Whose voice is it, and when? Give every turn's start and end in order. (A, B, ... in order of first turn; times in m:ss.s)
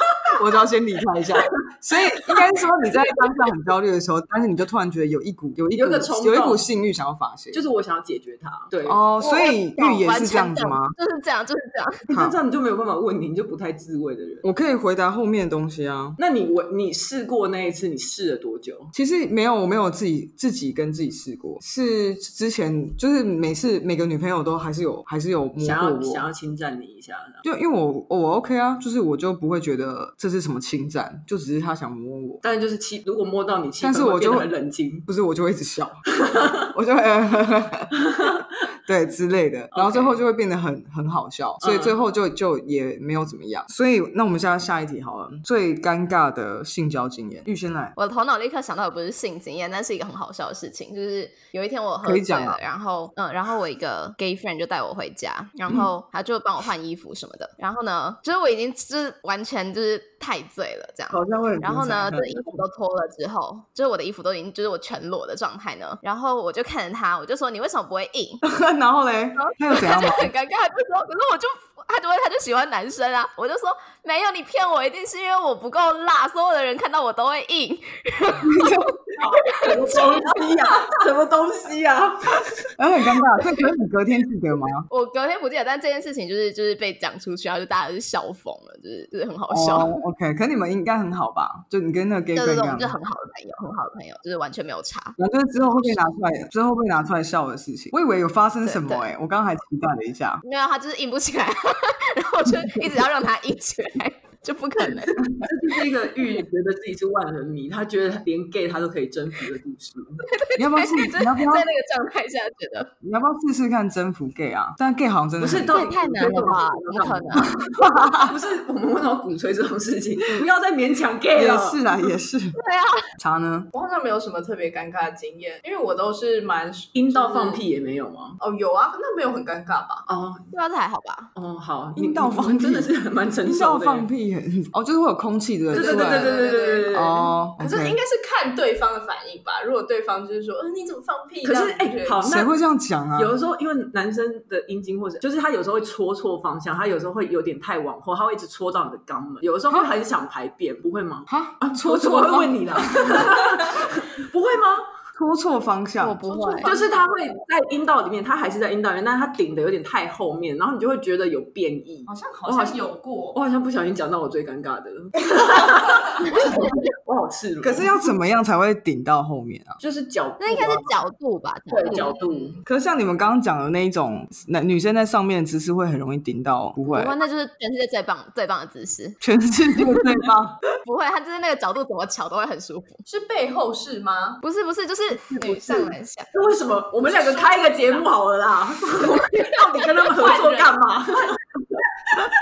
0:00.3-0:07.6 A
0:05.8-0:06.6 B
0:07.5-0:09.0 B
0:08.8-0:10.9 A
0:09.2-0:12.0 C
0:12.1-0:14.5 B
0:12.1-0:12.4 A
0:14.4-0:16.2 A
0:16.2-0:18.9 B
0:18.9-0:26.3 A
0:25.6-0:27.4 B
0:27.4-0:32.4 A
0:32.4-0:35.1 B
0:33.8-0:34.5 A
0:35.1-0:36.0 A
0:36.2-0:36.6 B
0:36.7-0:48.0 A
0:38.0-0:38.4 B
0:39.7-0:40.2 B
0:41.6-0:42.0 B
0:48.0-1:08.4 C
0:52.0-0:52.6 A
1:01.1-1:02.6 A
1:08.4-1:10.3 A
1:09.4-1:20.3 C
1:18.4-1:19.0 A
1:19.2-1:22.7 B
1:22.8-1:24.9 A
1:24.9-1:30.0 C
1:29.5-1:33.0 A
1:32.4-1:36.1 C
1:35.2-1:40.4 A
1:38.6-1:39.0 C
1:40.4-1:45.3 C
1:42.5-1:42.8 A
1:45.2-1:45.4 A
1:45.4-1:50.2 B
1:50.3-1:52.9 C
1:50.6-1:51.7 A
1:53.0-1:55.8 A
1:55.4-1:57.6 B
1:55.7-1:57.5 C
1:57.8-1:58.3 A
1:58.1-2:01.8 B
2:01.4-2:02.6 A
2:02.6-2:03.0 C
2:03.2-2:03.7 A
2:03.7-2:07.6 D
2:06.9-2:08.4 B
2:08.4-2:10.1 D
2:10.1-2:10.5 B
2:10.5-2:11.3 C
2:11.4-2:14.1 B
2:12.0-2:12.9 A
2:13.4-2:16.4 A
2:15.7-2:17.0 D
2:15.7-2:17.3 B
2:16.9-2:18.0 A
2:17.6-2:22.2 D
2:21.4-2:22.5 B
2:22.2-2:23.3 A
2:23.2-2:34.9 B
2:31.3-2:33.3 A
2:35.2-2:36.3 A
2:36.0-2:36.7 C
2:36.3-2:37.0 D
2:36.6-2:47.9 B
2:42.1-2:43.4 D
2:46.3-2:46.9 C
2:47.6-2:49.8 A
2:49.8-2:51.0 B
2:50.4-2:52.3 C
2:51.7-2:52.6 B
2:52.6-2:57.2 A
2:56.9-2:59.2 C
2:59.2-3:00.6 A
2:59.8-3:00.1 C
3:00.8-3:03.0 C
3:03.1-3:04.4 D
3:04.4-3:06.3 C
3:05.3-3:06.0 D
3:06.3-3:11.8 B
3:07.0-3:08.1 D
3:09.7-3:10.8 D